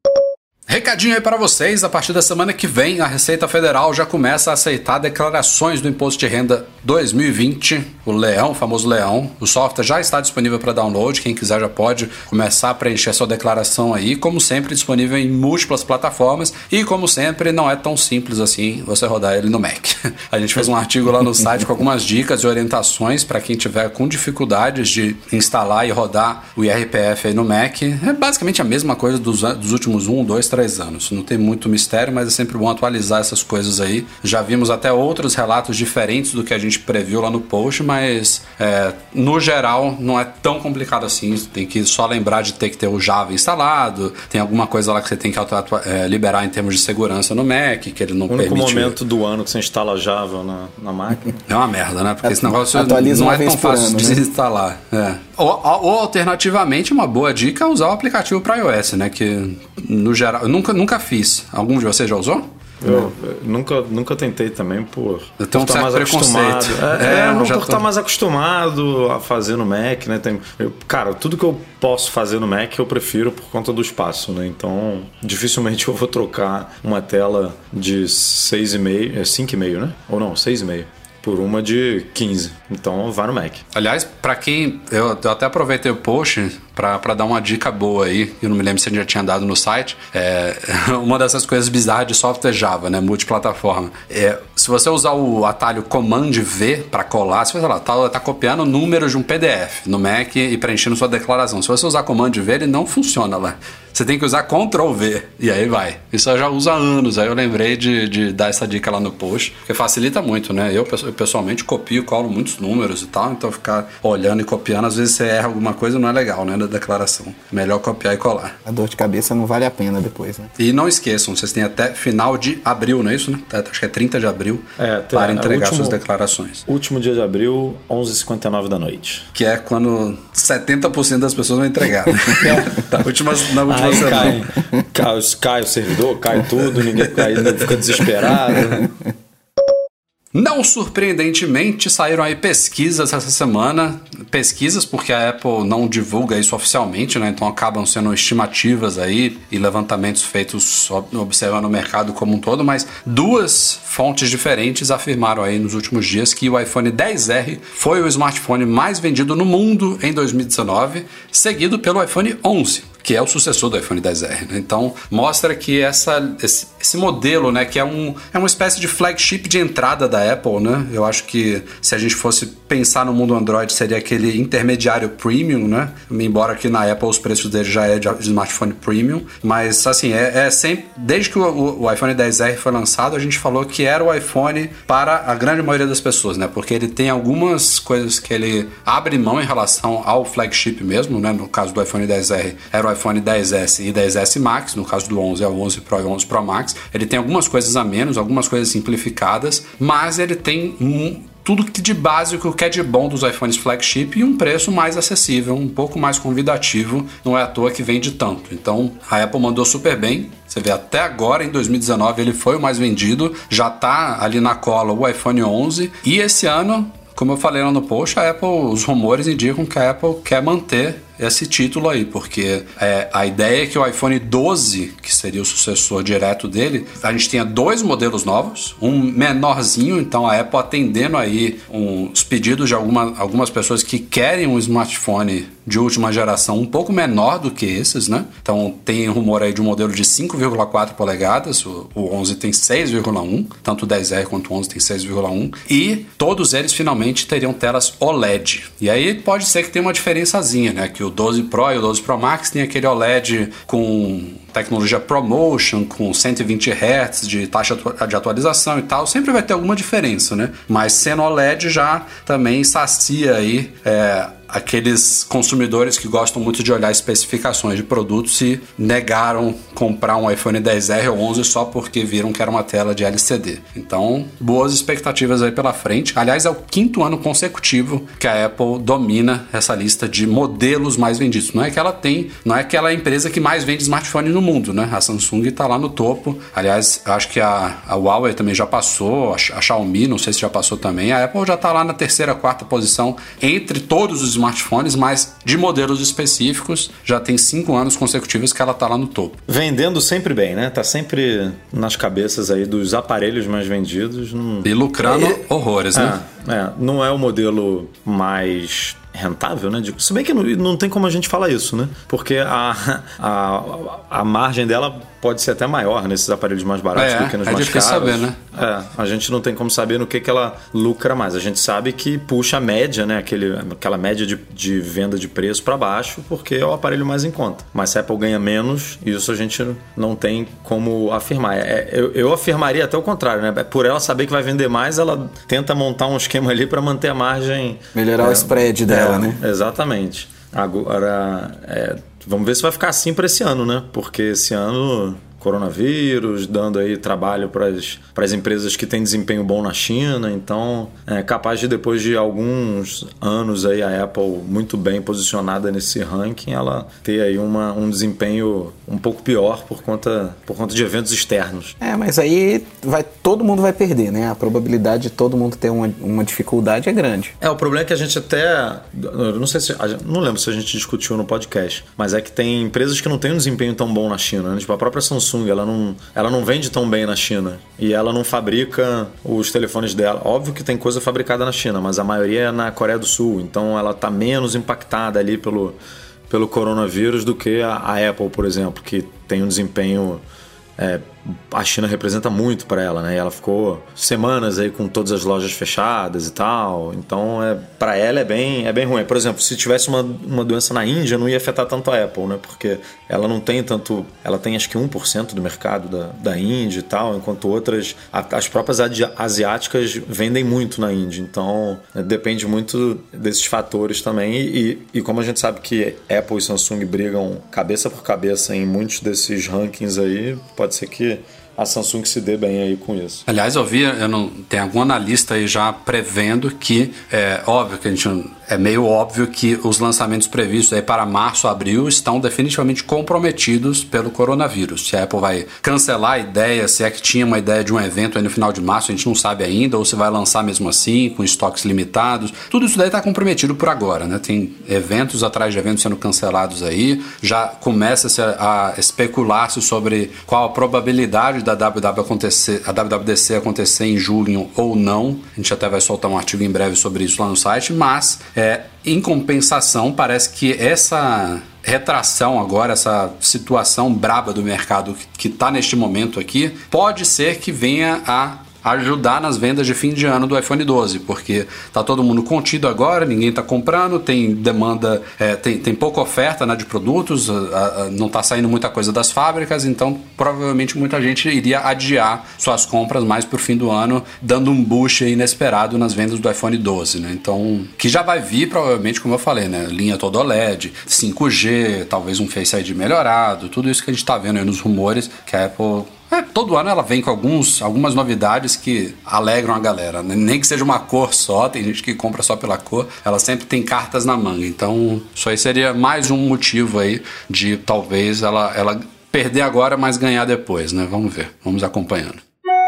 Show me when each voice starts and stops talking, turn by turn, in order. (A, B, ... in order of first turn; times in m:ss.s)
0:00.7-0:49.0 A
0:48.3-0:51.4 B
0:51.5-1:02.4 A
0:52.2-0:54.2 C
1:02.8-1:23.6 B
1:05.4-1:07.8 A
1:23.7-1:58.6 A
1:58.7-2:00.5 C
2:00.6-2:06.6 A
2:04.8-2:06.0 B
2:06.7-2:09.3 B
2:09.4-2:14.4 A
2:12.4-2:18.9 B
2:20.3-4:59.4 A
4:59.5-5:05.4 B
5:04.6-5:06.2 A
5:05.9-6:01.8 B
5:17.0-5:18.4 A
5:38.0-5:39.4 C
6:01.8-6:07.3 C
6:07.4-6:25.8 B
6:26.3-6:30.2 B
6:30.8-7:03.2 B
7:03.3-8:32.2 A